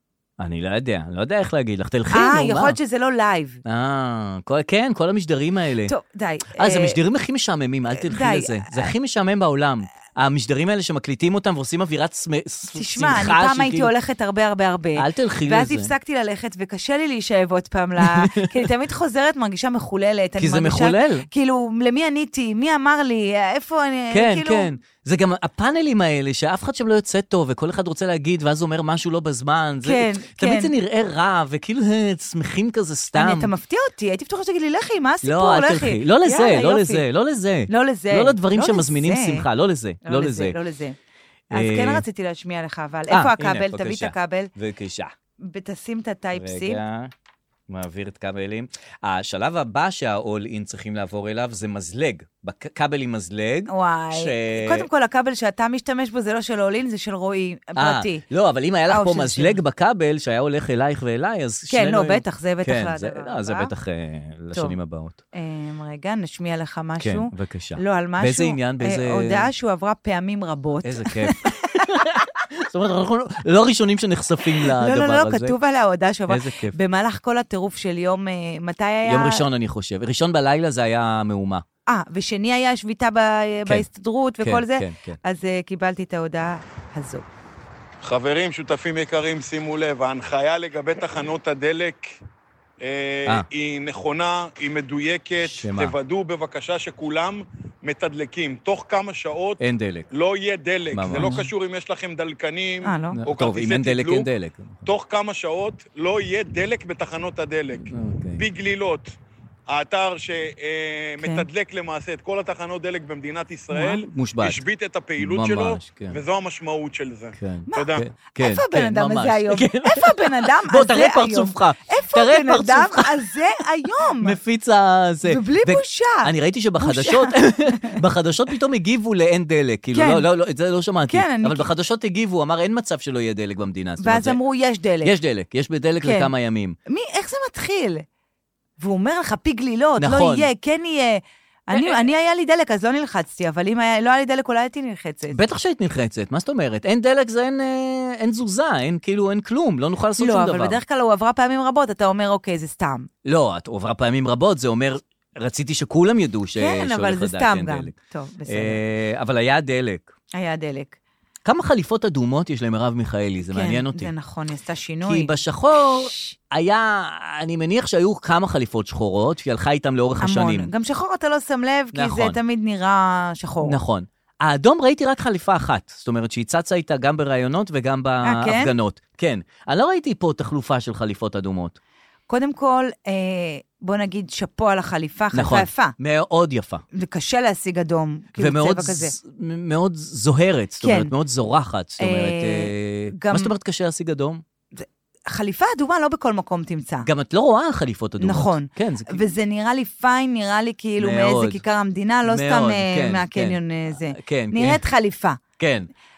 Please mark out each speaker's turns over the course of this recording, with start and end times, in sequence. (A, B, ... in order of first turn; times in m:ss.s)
0:00.4-0:02.8 A
0:02.1-0:03.6 B
0:03.6-0:05.9 A
0:05.9-0:07.0 B
0:06.6-0:13.9 A
0:08.0-0:08.9 B
0:12.7-0:24.7 B
0:15.0-0:15.9 A
0:18.0-0:18.5 A
0:20.4-0:21.3 A
0:24.1-0:33.5 A
0:29.8-0:30.7 B
0:33.2-0:37.0 B
0:35.2-0:40.6 A
0:37.7-0:39.5 B
0:40.0-0:41.0 B
0:41.5-0:42.0 A
0:41.5-0:44.5 B
0:43.1-0:45.1 A
0:45.4-0:46.8 B
0:46.4-0:47.1 A
0:47.7-0:54.9 A
0:53.7-0:58.2 B
0:57.8-1:05.2 A
0:58.9-0:59.6 B
1:01.7-1:03.7 B
1:05.4-1:12.1 B
1:07.0-1:09.5 A
1:10.8-1:15.6 A
1:14.6-1:19.4 B
1:16.3-1:16.8 A
1:19.1-1:21.6 A
1:21.9-1:27.3 B
1:24.4-1:25.2 A
1:28.0-1:32.2 C
1:32.8-1:39.6 C
1:35.4-1:36.0 A
1:39.6-1:40.1 A
1:40.1-1:44.3 C
1:40.9-1:41.4 A
1:42.8-1:43.2 B
1:43.2-1:44.8 A
1:44.8-1:49.1 C
1:47.9-1:48.4 A
1:49.7-1:58.1 C
1:51.2-1:51.5 B
1:53.7-1:54.6 A
1:55.2-1:56.2 A
1:57.4-2:03.2 A
1:57.7-2:04.4 B
2:04.2-2:14.4 A
2:05.2-2:08.0 B
2:09.9-2:10.2 B
2:11.1-2:11.7 B
2:14.0-2:15.1 B
2:15.0-2:16.8 A
2:16.0-2:16.3 B
2:16.9-2:18.0 B
2:18.8-2:25.4 B
2:20.0-2:20.5 A
2:21.7-2:22.0 A
2:25.3-2:30.8 A
2:30.2-2:33.1 B
2:33.2-2:37.9 A
2:36.6-2:38.8 B
2:38.5-2:40.1 A
2:40.4-2:41.0 B
2:41.4-2:44.1 A
2:43.5-2:45.3 B
2:45.1-2:50.7 A
2:50.2-2:53.8 B
2:51.9-2:52.4 A
2:53.6-3:01.8 A
2:58.2-2:58.7 B
3:02.3-3:05.9 B
3:05.3-3:06.8 A
3:06.9-3:09.2 B
3:08.4-3:14.4 A
3:10.8-3:11.1 B
3:12.0-3:13.5 B
3:14.8-3:17.1 B
3:17.0-3:19.3 A
3:18.2-3:25.4 B
3:21.0-3:21.6 A
3:22.3-3:24.8 A
3:25.6-3:25.9 A